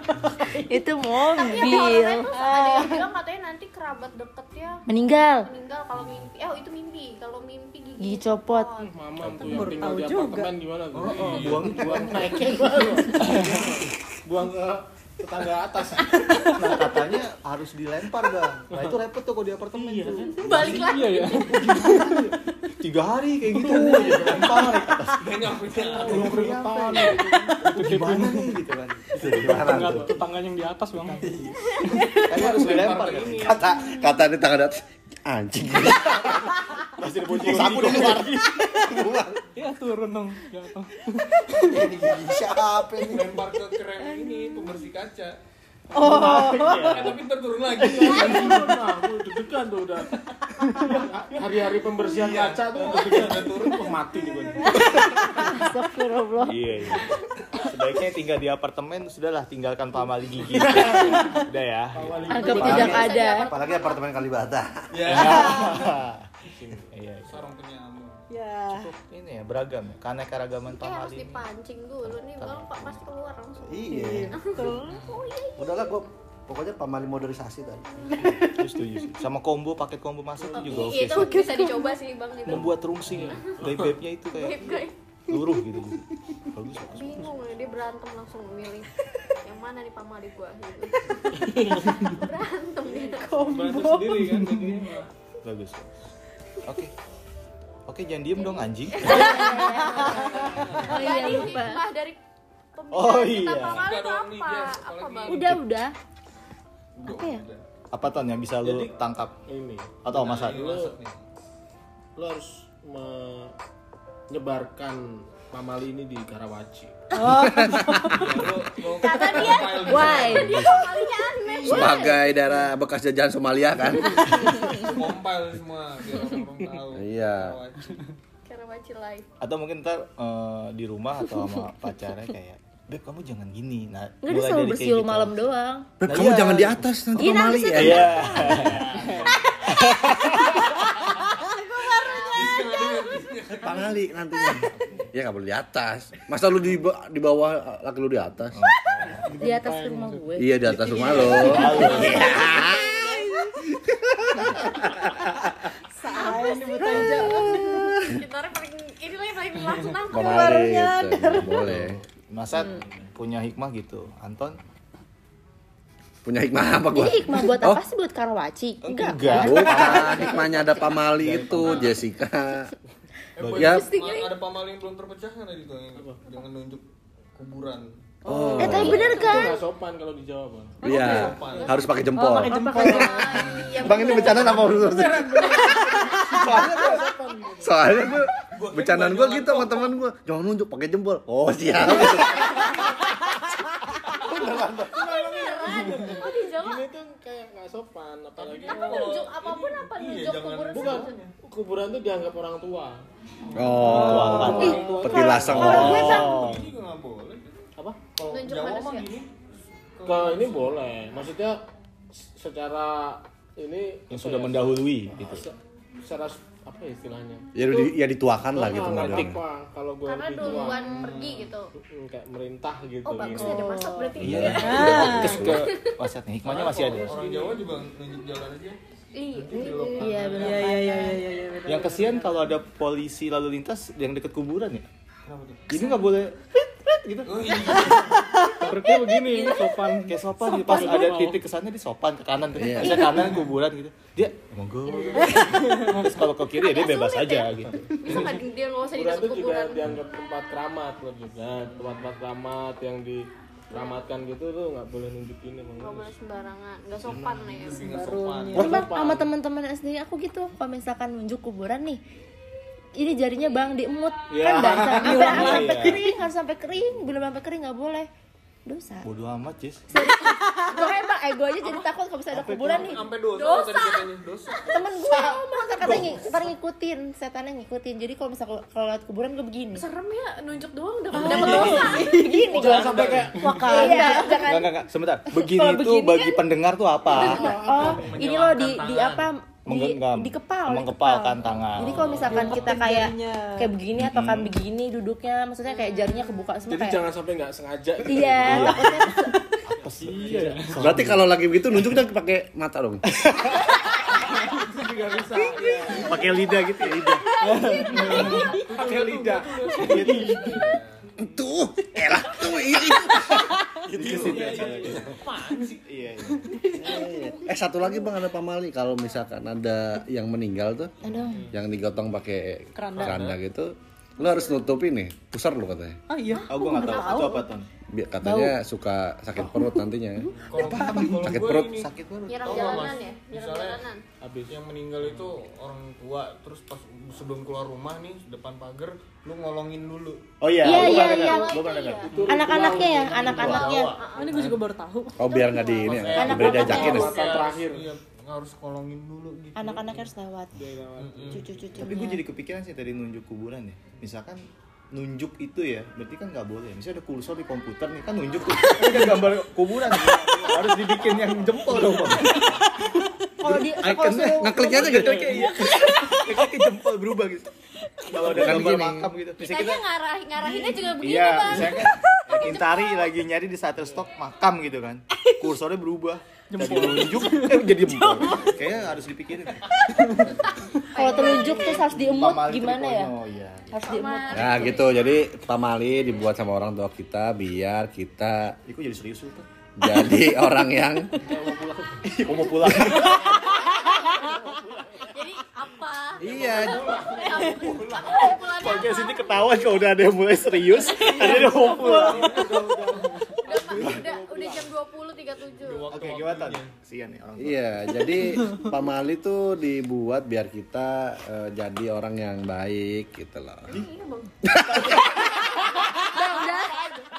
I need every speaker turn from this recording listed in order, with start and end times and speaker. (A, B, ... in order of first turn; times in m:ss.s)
0:00.6-0:03.1 A
0:01.2-0:04.8 B
0:04.9-0:05.5 A
0:05.4-0:08.9 B
0:08.0-0:08.7 A
0:08.8-0:16.8 C
0:09.2-0:09.7 D
0:09.4-0:10.5 E
0:10.9-0:13.7 F
0:11.1-0:11.8 G
0:11.4-0:12.4 D
0:16.5-0:30.2 F
0:19.7-0:20.8 C
0:20.4-0:21.7 B
0:20.8-0:22.1 H
0:23.7-0:24.4 H
0:23.9-0:24.5 C
0:25.1-0:27.0 G
0:25.8-0:27.6 C
0:27.7-0:28.5 H
0:29.2-0:30.2 D
0:29.5-0:32.1 H
0:31.0-0:33.6 F
0:32.2-0:33.6 G
0:33.3-0:36.6 D
0:36.1-0:36.4 F
0:36.9-0:38.3 F
0:37.3-0:39.4 D
0:37.5-0:38.3 C
0:39.6-0:41.9 H
0:41.5-0:43.4 D
0:43.1-0:45.4 G
0:45.9-0:46.9 E
0:46.0-0:47.2 F
0:46.2-0:47.0 C
0:46.6-0:48.7 G
0:47.8-0:50.1 C
0:50.8-0:51.4 F
0:50.9-0:55.2 C
0:52.0-0:53.9 G
0:54.7-0:56.8 A
0:56.4-1:02.9 F
1:00.5-1:03.0 C
1:02.3-1:03.5 A
1:02.3-1:04.0 B
1:02.5-1:05.7 D
1:04.9-1:05.8 G
1:05.0-1:07.3 F
1:06.5-1:06.9 C
1:07.2-1:08.2 G
1:08.3-1:08.9 E
1:08.7-1:11.4 F
1:10.7-1:16.0 B
1:12.0-1:13.0 F
1:13.6-1:14.4 D
1:13.9-1:14.8 E
1:14.8-1:15.2 H
1:15.6-1:18.1 D
1:18.1-1:18.7 E
1:18.4-1:21.4 F
1:20.4-1:20.9 C
1:20.6-1:22.7 B
1:21.4-1:21.7 E
1:21.4-1:21.9 A
1:22.4-1:27.4 F
1:22.5-1:24.0 C
1:23.3-1:23.6 B
1:24.3-1:24.9 B
1:26.9-1:33.4 B
1:31.4-1:31.9 C
1:33.1-1:34.5 E
1:33.4-1:35.1 C
1:34.4-1:34.9 H
1:35.4-1:35.9 F
1:36.6-1:36.9 F
1:37.9-1:39.6 F
1:38.4-1:42.2 B
1:39.0-1:41.8 A
1:40.4-1:41.4 G
1:42.8-1:45.6 B
1:42.9-1:43.9 F
1:43.6-1:45.6 G
1:45.3-1:45.9 A
1:47.0-1:47.6 G
1:47.0-1:47.4 A
1:47.9-1:49.3 F
1:48.6-1:50.9 C
1:50.0-1:50.6 F
1:50.1-1:51.2 G
1:52.2-1:53.5 C
1:54.3-1:56.9 C
1:57.2-1:57.6 A
1:57.2-1:58.2 E
1:57.3-1:58.3 D
1:58.1-2:00.6 G
1:58.8-2:02.2 B
1:59.8-2:00.6 A
2:00.2-2:00.7 D
2:01.6-2:04.6 D
2:01.7-2:02.2 A
2:04.6-2:08.0 G
2:06.9-2:07.6 D
2:08.5-2:09.2 B
2:09.4-2:15.4 F
2:14.2-2:15.9 A
2:16.0-2:18.9 D
2:16.0-2:16.9 F
2:17.1-2:18.8 A
2:17.7-2:20.3 F
2:19.2-2:19.7 B
2:19.9-2:20.4 D
2:20.3-2:23.3 B
2:22.2-2:24.0 G
2:23.5-2:28.7 D
2:24.6-2:25.1 F
2:28.5-2:29.3 F
2:29.2-2:30.0 H
2:29.4-2:32.2 A
2:29.4-2:30.2 E
2:30.4-2:35.5 D
2:30.7-2:32.4 F
2:31.4-2:33.5 E
2:31.9-2:33.3 B
2:35.9-2:37.9 E
2:36.8-2:38.2 D
2:36.9-2:37.3 F
2:37.4-2:40.4 B
2:39.6-2:39.9 H
2:40.1-2:42.0 D
2:40.2-2:41.6 E
2:41.4-2:44.6 F
2:46.2-2:47.8 D
2:46.9-2:50.7 A
2:48.8-2:52.0 F
2:49.3-2:52.7 D
2:53.4-2:56.8 G
2:53.4-2:53.8 F
2:53.5-2:53.8 D
2:53.8-2:54.3 B
2:56.0-2:56.2 C
2:57.4-2:57.9 G
2:58.2-3:00.8 C
2:58.2-2:59.2 D
2:58.6-2:59.6 A
3:00.8-3:01.8 G
3:00.8-3:15.0 D
3:00.9-3:01.3 E
3:00.9-3:04.9 B
3:02.2-3:03.4 A
3:02.5-3:03.1 E
3:04.2-3:04.6 G
3:04.6-3:07.9 C
3:08.5-3:09.9 G
3:14.2-3:16.9 B
3:14.9-3:19.0 C
3:18.4-3:21.3 G
3:18.6-3:21.1 B
3:20.7-3:23.0 C
3:23.5-3:26.2 D
3:23.8-3:25.0 E
3:23.8-3:26.5 C
3:23.8-3:26.7 F
3:24.5-3:26.4 A
3:26.0-3:27.6 G
3:28.2-3:30.9 G
3:28.3-3:29.1 B
3:30.0-3:31.6 C
3:32.1-3:37.5 C
3:34.1-3:35.4 F
3:37.5-3:39.4 D
3:38.5-3:41.1 C
3:40.0-3:41.7 B
3:40.8-3:41.6 G
3:41.8-3:43.7 C
3:43.0-3:44.8 B
3:43.4-3:45.4 E
3:44.2-3:45.6 D
3:44.2-3:47.2 F
3:45.0-3:45.6 C
3:45.4-3:46.0 B
3:46.4-3:47.6 C
3:46.5-3:48.8 G
3:49.1-3:51.2 B
3:49.3-3:50.8 G
3:49.9-3:51.1 A
3:50.3-3:52.5 E
3:51.6-3:54.8 F
3:55.2-3:55.7 G
3:55.7-3:58.0 F
3:57.2-3:58.3 G
3:58.5-4:00.2 H
3:59.2-3:59.8 B
4:00.1-4:08.3 F
4:00.5-4:01.1 E
4:00.7-4:01.3 C
4:00.7-4:01.4 H
4:02.5-4:03.2 D
4:05.1-4:05.4 C
4:05.3-4:05.8 E
4:06.5-4:09.9 B
4:08.0-4:08.4 C
4:08.9-4:16.1 C
4:11.6-4:12.0 G
4:13.7-4:14.1 B
4:15.8-4:17.9 B
4:17.0-4:17.6 C
4:17.4-4:18.9 G
4:17.8-4:18.9 E
4:18.5-4:19.3 C
4:18.5-4:22.0 A
4:22.9-4:28.1 A
4:24.3-4:26.0 C
4:24.9-4:26.0 E
4:25.0-4:26.0 F
4:28.6-4:29.0 A
4:29.0-4:29.9 F
4:29.9-4:33.1 A
4:30.2-4:31.0 B
4:31.6-4:31.9 B
4:32.3-4:33.0 F
4:32.6-4:35.0 G
4:33.3-4:34.0 B
4:34.7-4:39.9 A
4:35.8-4:36.3 F
4:39.7-4:42.8 B
4:41.1-4:44.4 C
4:41.2-4:42.6 E
4:41.2-4:42.0 F
4:41.3-4:46.4 A
4:42.5-4:43.5 G
4:43.4-4:44.3 E
4:43.8-4:44.5 B
4:44.0-4:48.0 F
4:47.0-4:48.2 C
4:47.3-4:47.5 B
4:47.4-4:57.0 A
4:47.7-4:49.3 G
4:49.6-4:52.5 F
4:51.4-4:53.0 C
4:52.2-4:53.7 E
4:54.0-4:54.5 F
4:55.6-4:56.5 B
4:56.7-4:59.2 C
4:58.0-4:59.6 A
4:58.4-4:59.1 F
4:59.6-5:02.0 F
4:59.7-5:00.8 C
5:00.2-5:00.7 H
5:00.8-5:03.6 D
5:03.2-5:03.9 F
5:04.6-5:06.4 C
5:05.9-5:07.2 F
5:06.8-5:07.2 D
5:07.4-5:09.1 E
5:07.5-5:10.6 C
5:07.9-5:11.0 G
5:08.1-5:08.4 F
5:09.8-5:10.4 F
5:09.9-5:10.2 E
5:11.2-5:15.2 D
5:13.9-5:16.6 F
5:14.1-5:15.0 G
5:14.2-5:15.6 C
5:15.3-5:15.6 E
5:16.6-5:17.1 E
5:16.7-5:18.1 A
5:16.8-5:20.9 D
5:21.0-5:21.5 A
5:21.5-5:26.0 D
5:22.8-5:23.3 E
5:23.0-5:23.4 G
5:24.2-5:24.7 B
5:26.1-5:27.4 E
5:26.5-5:27.7 F
5:26.7-5:27.3 B
5:27.9-5:30.3 D
5:28.2-5:28.5 A
5:30.3-5:30.6 C
5:30.5-5:31.9 G
5:30.5-5:33.0 F
5:30.9-5:31.8 D
5:32.3-5:34.0 B
5:32.4-5:33.8 G
5:34.2-5:35.3 C
5:34.5-5:40.2 G
5:40.4-5:42.1 F
5:40.6-5:41.6 A
5:40.6-5:42.3 B
5:42.1-5:43.7 C
5:42.3-5:43.9 A
5:43.2-5:44.6 G
5:44.0-5:44.4 B
5:44.1-5:45.2 E
5:45.2-5:47.1 D
5:45.2-5:47.4 B
5:45.8-5:49.8 G
5:46.1-5:47.2 A
5:46.3-5:47.9 C
5:49.5-5:50.6 A
5:49.8-5:52.0 C
5:51.0-5:51.4 G
5:51.3-5:52.2 A
5:51.8-6:02.6 F
5:59.9-6:02.1 C
6:01.8-6:02.2 D
6:03.4-6:05.4 A
6:03.4-6:07.5 F
6:04.4-6:05.3 D
6:04.7-6:06.0 C
6:05.3-6:06.5 E
6:08.1-6:09.8 F
6:08.2-6:09.1 D
6:09.4-6:13.1 B
6:11.0-6:20.3 F
6:13.8-6:14.1 C
6:15.1-6:15.4 E
6:16.5-6:18.6 E
6:16.6-6:17.4 H
6:19.6-6:20.2 E
6:20.5-6:21.9 B
6:20.9-6:23.1 A
6:21.0-6:23.8 F
6:23.7-6:24.7 A
6:23.8-6:25.1 B
6:24.3-6:28.6 D
6:28.6-6:29.4 F
6:29.8-6:31.1 D
6:31.2-6:32.0 C
6:32.0-6:33.3 F
6:32.6-6:33.2 D
6:33.4-6:34.4 B
6:34.2-6:35.0 C
6:35.0-6:39.4 B
6:36.2-6:36.8 D
6:36.3-6:38.4 G
6:36.9-6:37.3 C
6:38.2-6:42.4 F
6:40.6-6:41.9 B
6:41.2-6:44.7 C
6:41.4-6:43.3 G
6:43.4-6:45.9 B
6:45.6-6:46.7 G
6:45.9-6:48.1 F
6:47.4-6:53.7 D
6:53.7-6:57.0 B
6:54.4-6:55.5 D
6:56.0-6:56.8 A